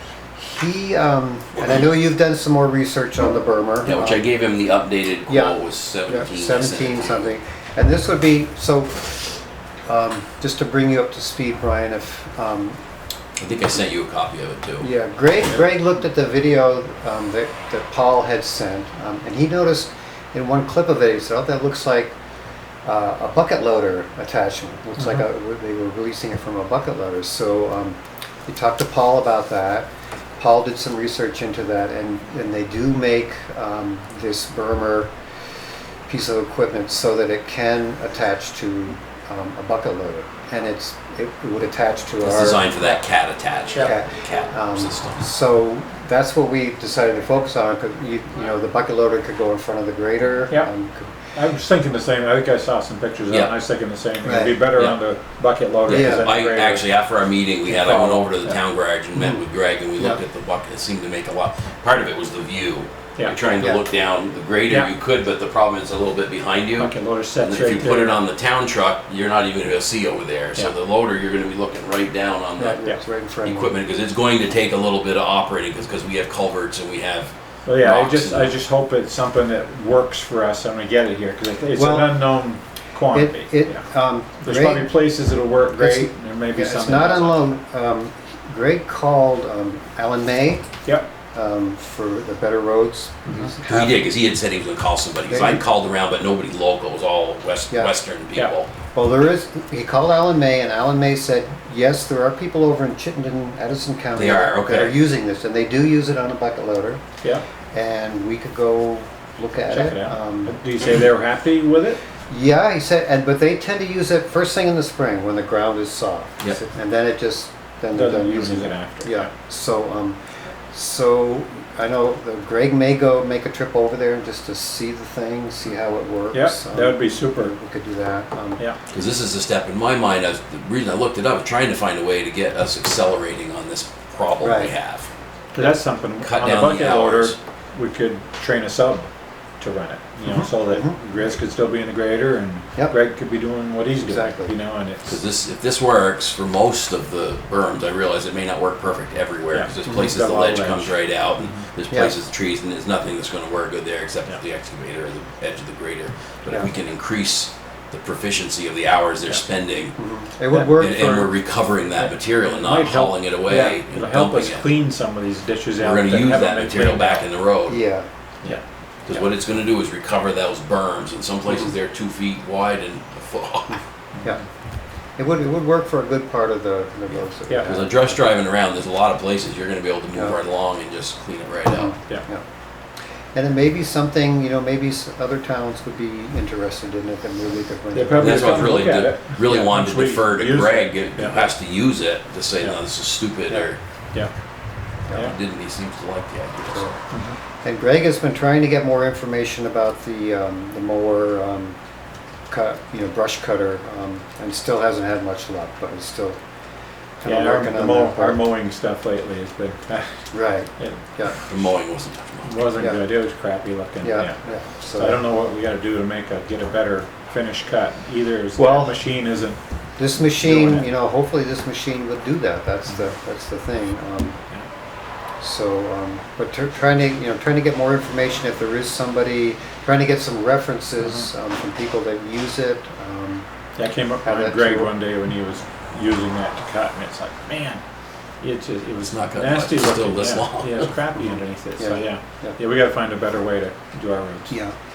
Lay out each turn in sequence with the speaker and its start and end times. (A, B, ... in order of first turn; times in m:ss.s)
0:00.4-0:04.3 A
0:03.9-0:07.3 B
0:05.3-0:09.2 A
0:09.9-0:12.8 A
0:13.4-0:14.9 B
0:14.8-0:22.1 A
0:22.8-0:35.1 A
0:36.1-0:42.7 A
0:42.2-0:45.3 B
0:43.7-0:51.1 A
0:51.4-0:56.9 C
0:54.2-0:54.6 A
0:55.9-1:12.8 B
0:55.9-0:56.3 A
0:57.7-0:58.6 C
1:06.8-1:08.2 C
1:12.6-1:13.7 A
1:13.4-1:18.5 B
1:17.7-1:23.8 C
1:21.8-1:22.4 A
1:23.1-1:24.9 A
1:24.4-1:27.4 C
1:25.7-1:30.7 A
1:31.3-1:34.0 A
1:33.3-1:33.5 C
1:33.7-1:38.7 B
1:35.3-1:35.6 A
1:38.9-1:47.0 A
1:44.2-1:44.9 B
1:47.7-1:50.6 A
1:49.7-1:52.0 C
1:52.3-2:00.2 A
1:57.9-1:59.3 C
2:00.7-2:08.6 A
2:06.3-2:07.5 C
2:08.9-2:17.4 B
2:14.4-2:14.7 A
2:15.5-2:19.1 C
2:19.6-2:25.2 C
2:20.2-2:21.0 A
2:24.0-2:24.5 A
2:25.1-2:40.0 B
2:29.5-2:31.6 C
2:40.0-2:41.3 A
2:40.8-2:44.7 B
2:42.0-2:47.3 C
2:45.8-2:47.8 B
2:47.7-2:48.1 A
2:49.1-2:53.8 B
2:55.2-2:58.1 A
2:57.7-3:02.0 B
3:01.7-3:02.4 A
3:03.4-3:08.8 A
3:07.9-3:11.5 C
3:08.2-3:13.8 B
3:15.2-3:16.9 B
3:16.7-3:16.9 A
3:17.1-3:17.4 C
3:17.6-3:21.8 A
3:22.5-3:26.4 A
3:27.2-3:28.4 A
3:27.2-3:30.1 C
3:30.3-3:31.4 A
3:31.5-3:32.7 B
3:32.4-3:34.4 C
3:34.0-3:35.2 A
3:35.0-3:39.6 C
3:38.6-3:39.0 A
3:40.0-3:44.4 A
3:40.4-3:40.9 C
3:45.4-3:53.5 A
3:51.0-3:51.3 C
3:53.8-3:57.8 C
3:54.2-3:54.9 A
3:58.4-4:04.5 C
3:59.0-4:00.9 B
4:01.2-4:02.6 A
4:04.5-4:04.8 A